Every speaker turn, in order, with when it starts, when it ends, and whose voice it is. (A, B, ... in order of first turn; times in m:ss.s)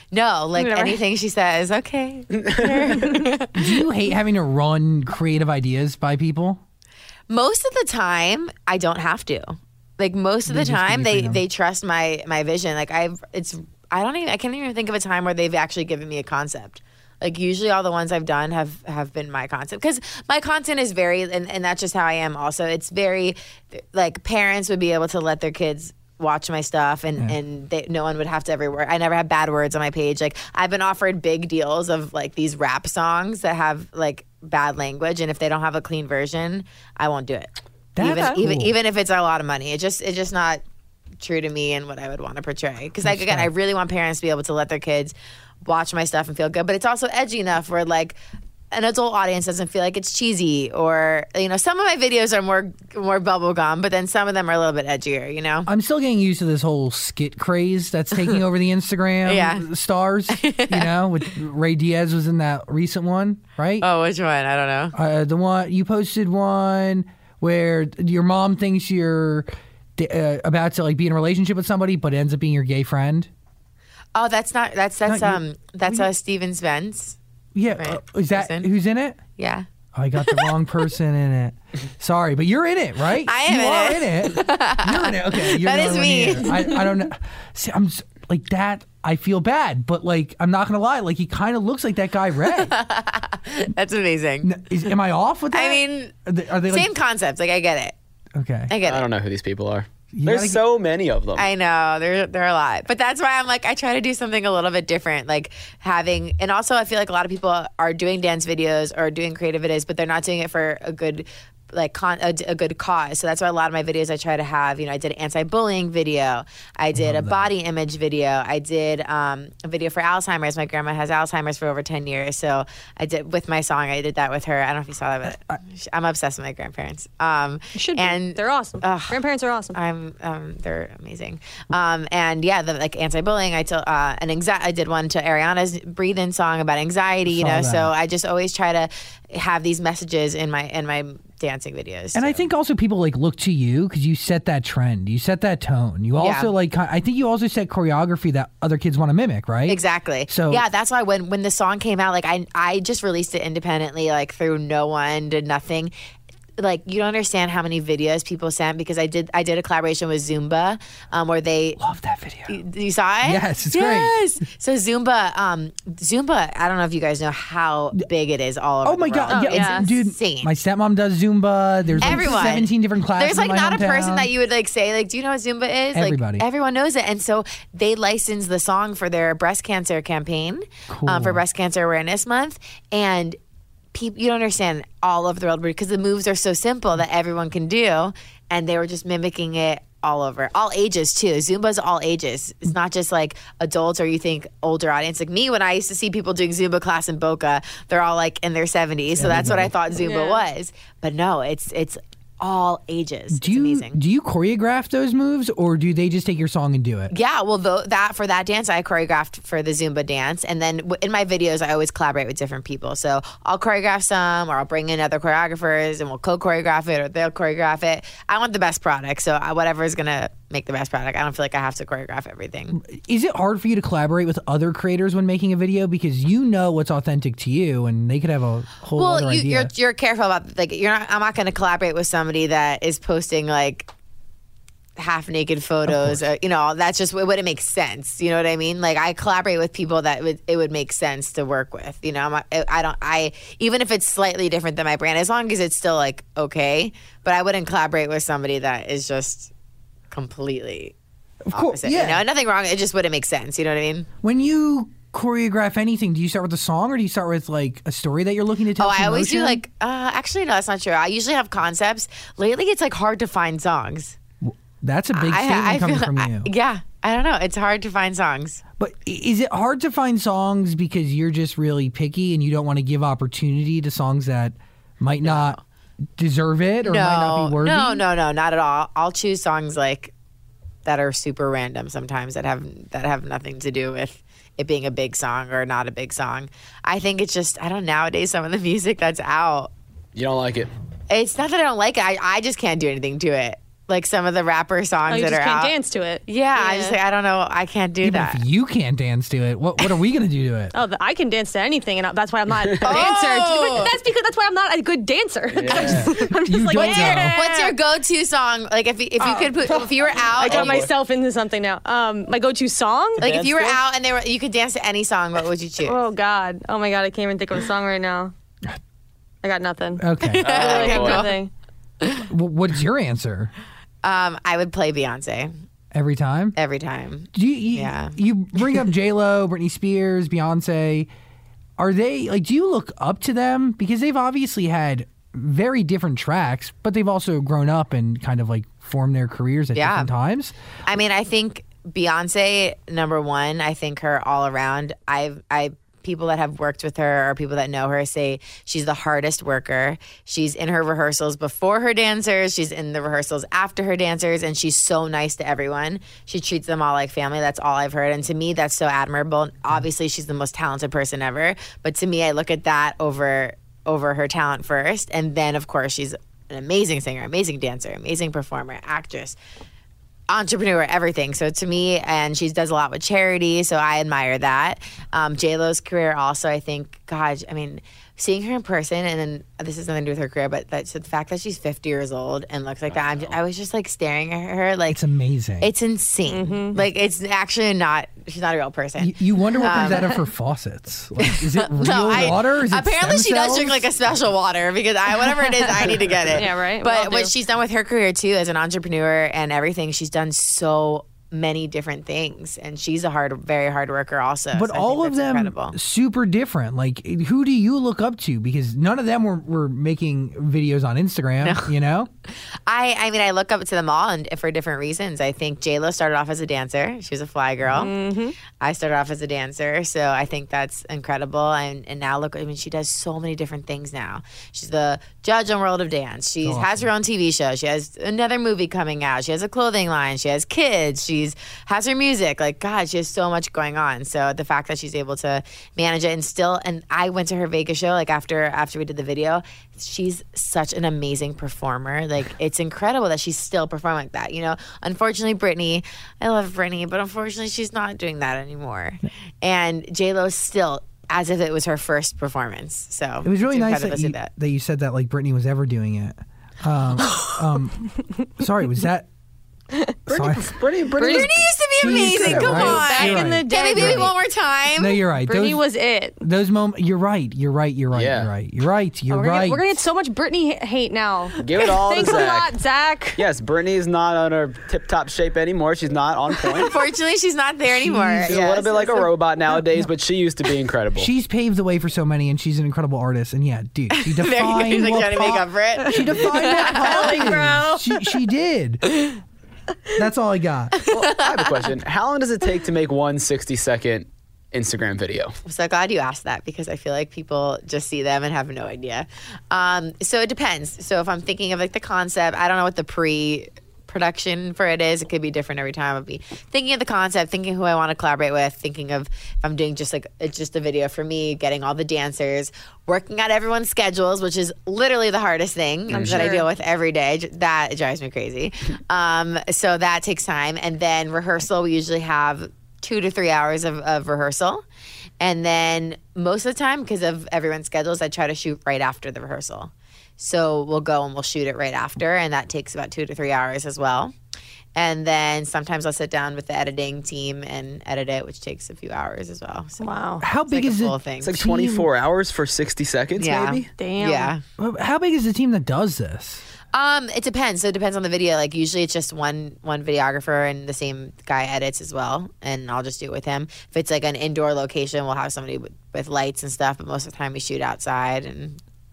0:00.1-0:03.8 A
0:00.6-0:01.0 B
0:02.4-0:03.2 C
0:03.5-0:06.6 D
0:07.3-0:40.6 A
0:10.5-0:11.4 D
0:38.0-0:38.7 D
0:41.2-0:48.2 A
0:43.0-0:43.5 D
0:48.7-0:55.7 A
0:55.7-1:03.9 D
0:59.2-0:59.7 A
1:00.3-1:00.9 A
1:03.8-1:05.0 A
1:04.9-1:13.3 D
1:14.2-1:17.2 A
1:15.1-1:16.1 D
1:17.6-1:19.2 D
1:17.7-1:18.7 A
1:19.4-1:19.7 A
1:19.9-1:32.8 D
1:20.2-1:20.5 A
1:23.2-1:26.9 A
1:32.6-1:34.7 A
1:34.4-1:36.9 D
1:35.5-1:36.1 A
1:36.7-1:38.0 A
1:38.4-1:38.7 D
1:38.7-1:39.1 A
1:38.8-1:41.5 C
1:40.1-1:40.6 D
1:41.4-2:09.2 A
1:56.9-1:57.5 D
2:05.3-2:05.6 D
2:07.8-2:09.8 B
2:09.7-2:22.5 A
2:17.3-2:17.9 D
2:22.1-2:30.6 D
2:26.2-2:26.5 A
2:29.7-2:35.9 A
2:36.6-2:41.8 A
2:41.8-2:42.6 D
2:42.5-2:50.5 A
2:43.2-2:44.2 D
2:48.8-2:54.3 D
2:49.3-2:49.9 B
2:52.0-3:03.4 A
2:55.9-2:56.4 D
3:00.9-3:01.4 D
3:03.9-3:24.0 A
3:19.2-3:19.8 D
3:19.9-3:20.4 B
3:23.3-3:27.1 D
3:27.1-3:42.8 A
3:42.8-3:49.7 D
3:48.9-3:53.9 A
3:55.0-4:09.5 A
3:55.9-3:56.2 D
4:10.1-4:11.0 A
4:11.5-4:12.2 D
4:11.5-4:14.1 A
4:14.2-4:19.6 D
4:18.8-4:24.2 A
4:24.4-4:26.5 D
4:25.1-4:28.6 A
4:28.8-4:35.6 D
4:35.2-4:35.6 A
4:36.2-4:38.0 D
4:36.8-4:40.1 A
4:40.8-4:49.7 A
4:50.2-4:50.7 C
4:51.1-4:55.7 A
4:55.1-4:57.0 B
4:56.3-4:58.4 A
4:58.0-5:00.7 D
5:00.7-5:07.8 B
5:02.8-5:03.9 A
5:05.5-5:06.1 C
5:06.0-5:07.4 D
5:06.8-5:10.9 A
5:09.2-5:13.3 B
5:10.4-5:10.9 C
5:13.2-5:13.8 C
5:13.2-5:16.0 A
5:15.8-5:18.3 B
5:19.4-5:21.5 B
5:20.0-5:20.5 D
5:20.3-5:21.4 A
5:20.4-5:21.3 C
5:22.2-5:23.5 D
5:24.0-5:25.5 A
5:25.9-5:26.6 D
5:26.6-5:28.2 A
5:27.3-5:31.1 D
5:31.8-5:40.5 D
5:39.8-5:40.1 A
5:40.9-6:09.4 A
6:10.3-6:25.0 A
6:22.9-6:23.4 C
6:24.9-6:25.7 D
6:25.6-6:30.2 A
6:26.3-6:26.8 B
6:29.0-6:33.8 D
6:31.2-6:45.8 A
6:36.3-6:37.3 B
6:44.5-6:52.1 D
6:51.4-6:51.7 A
6:52.7-6:57.9 A
6:57.8-6:58.4 B
6:58.6-7:34.3 A
7:06.4-7:06.9 D
7:33.2-7:39.1 D
7:39.7-7:40.0 B
7:40.1-7:41.4 C
7:40.1-7:44.1 D
7:41.0-7:41.3 B
7:41.0-7:45.0 A
7:42.2-7:42.9 C
7:42.2-7:44.2 B
7:44.8-7:45.6 D
7:45.2-7:46.2 B
7:46.2-7:49.7 D
7:47.9-7:48.3 C
7:49.1-7:53.2 B
7:51.4-7:52.5 C
7:53.2-7:56.8 C
7:56.6-7:59.1 A
7:57.7-7:58.4 D
7:58.3-8:01.1 C
8:01.0-8:08.8 D
8:03.9-8:07.3 A
8:06.0-8:08.0 B
8:10.0-8:10.7 D
8:10.8-8:11.4 A
8:10.9-8:15.4 C
8:15.4-8:44.6 A
8:35.9-8:36.3 C
8:36.0-8:36.5 B
8:45.2-8:54.1 A
8:54.8-8:59.9 A
8:59.8-9:00.2 B
9:00.2-9:01.9 D
9:00.5-9:01.4 A
9:01.2-9:03.7 C
9:03.2-9:04.4 A
9:03.8-9:04.3 B
9:04.6-9:06.4 D
9:06.7-9:18.6 A